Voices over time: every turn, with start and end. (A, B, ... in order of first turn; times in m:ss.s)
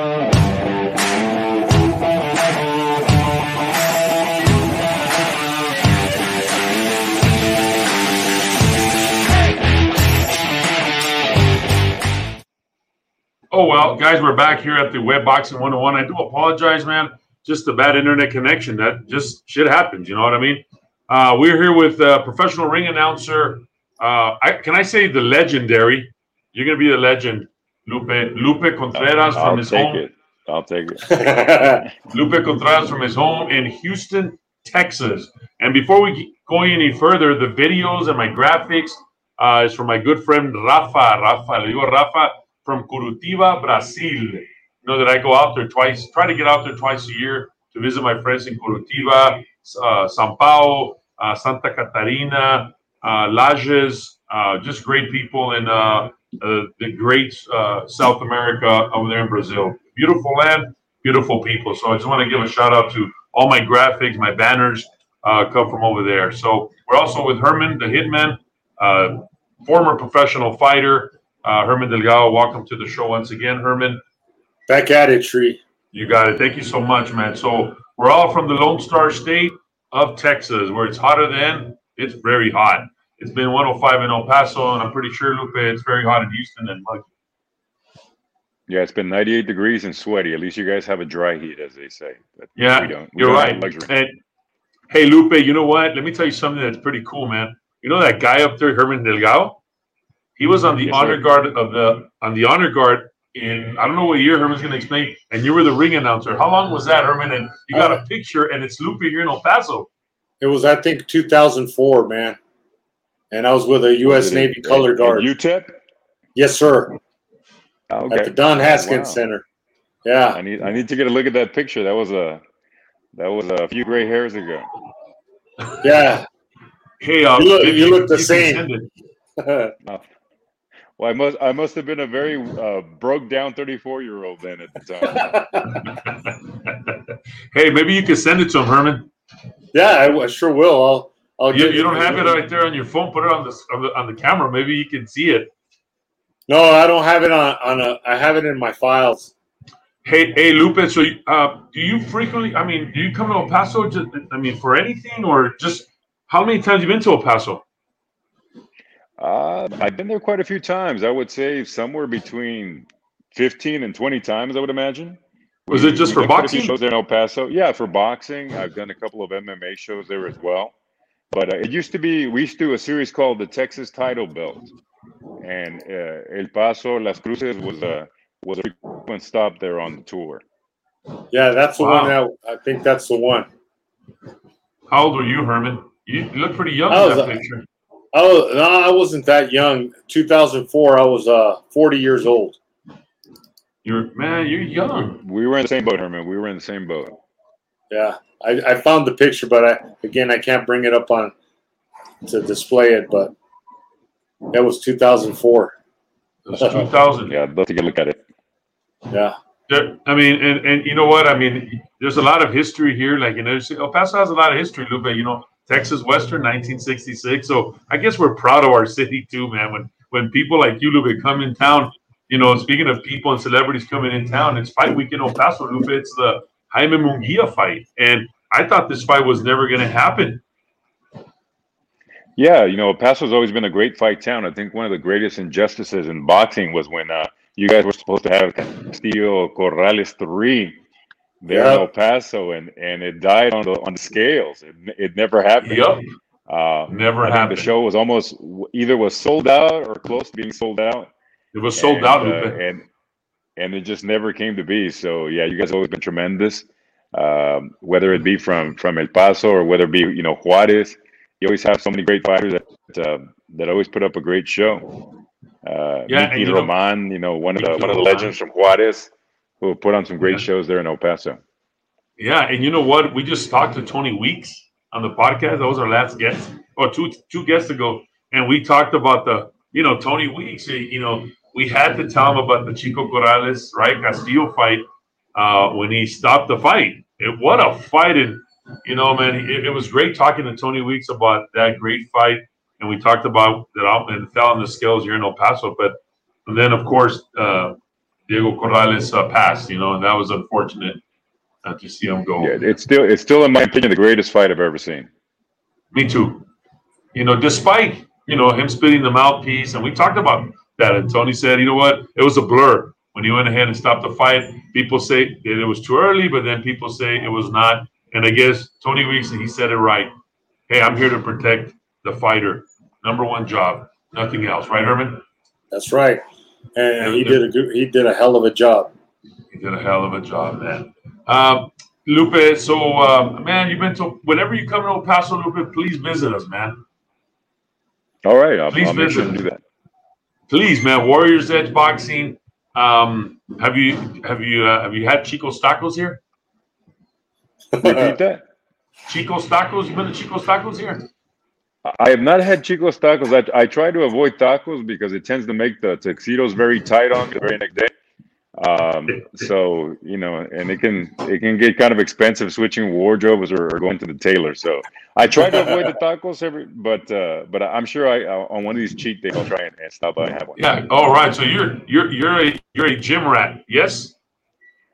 0:13.5-0:30.0 A
0:28.9-0:31.1 B
0:31.1-0:31.8 C
0:32.1-1:14.0 A
1:14.7-1:15.6 C
1:15.9-1:27.1 A
1:28.7-1:33.9 B
1:32.6-1:34.2 A
1:34.9-1:39.6 A
1:40.4-1:49.9 A
1:40.9-1:41.2 B
1:47.7-1:48.0 C
1:50.4-1:52.4 C
1:53.3-1:55.3 C
1:54.0-1:55.8 B
1:56.4-1:57.0 C
1:57.9-1:59.2 B
1:58.1-1:59.4 C
2:00.0-2:00.4 C
2:00.3-2:02.4 B
2:03.1-2:04.7 B
2:05.8-2:06.3 C
2:07.0-2:08.9 A
2:07.4-2:08.6 C
2:09.4-2:09.7 C
2:11.0-2:15.4 B
2:15.1-2:15.7 C
2:15.9-2:19.1 A
2:19.7-2:22.4 C
2:21.5-2:25.5 A
2:26.5-2:29.3 C
2:30.0-2:37.6 A
2:39.2-2:50.7 B
2:45.7-2:46.8 A
2:51.3-2:54.7 B
2:55.4-3:00.4 B
3:01.3-3:03.5 C
3:01.8-3:02.2 A
3:04.9-3:07.7 A
3:06.9-3:07.3 C
3:08.1-3:12.6 C
3:13.8-3:15.2 A
3:15.2-3:17.2 B
3:17.9-3:21.3 C
3:22.2-3:23.3 C
3:24.5-3:25.8 C
3:26.5-3:27.4 A
3:26.6-3:26.8 C
3:27.3-3:28.2 B
3:29.1-3:29.4 C
3:29.7-3:50.4 A
3:52.4-4:00.8 B
4:01.4-4:05.9 B
4:01.5-4:01.8 C
4:05.6-4:06.0 A
4:06.5-4:11.1 B
4:06.9-4:07.7 A
4:11.5-4:12.6 A
4:11.8-4:12.8 B
4:13.6-4:24.9 B
4:25.6-4:31.4 B
4:26.1-4:26.7 A
4:27.6-4:28.3 A
4:32.2-4:44.8 A
4:45.4-4:57.8 A
4:58.3-5:01.0 A
5:01.6-5:02.5 A
5:02.4-5:05.1 B
5:05.9-5:06.5 A
5:07.1-5:20.1 A
5:20.7-5:25.2 A
5:25.7-5:26.2 C
5:26.8-5:28.9 C
5:27.0-5:27.4 A
5:29.5-5:36.8 A
5:38.2-5:39.6 B
5:38.7-5:39.4 A
5:40.5-5:46.2 A
5:47.8-5:48.1 C
5:47.8-5:48.4 B
5:49.1-5:51.1 A
5:51.8-5:57.9 B
5:58.6-6:10.6 B
6:10.6-6:14.2 A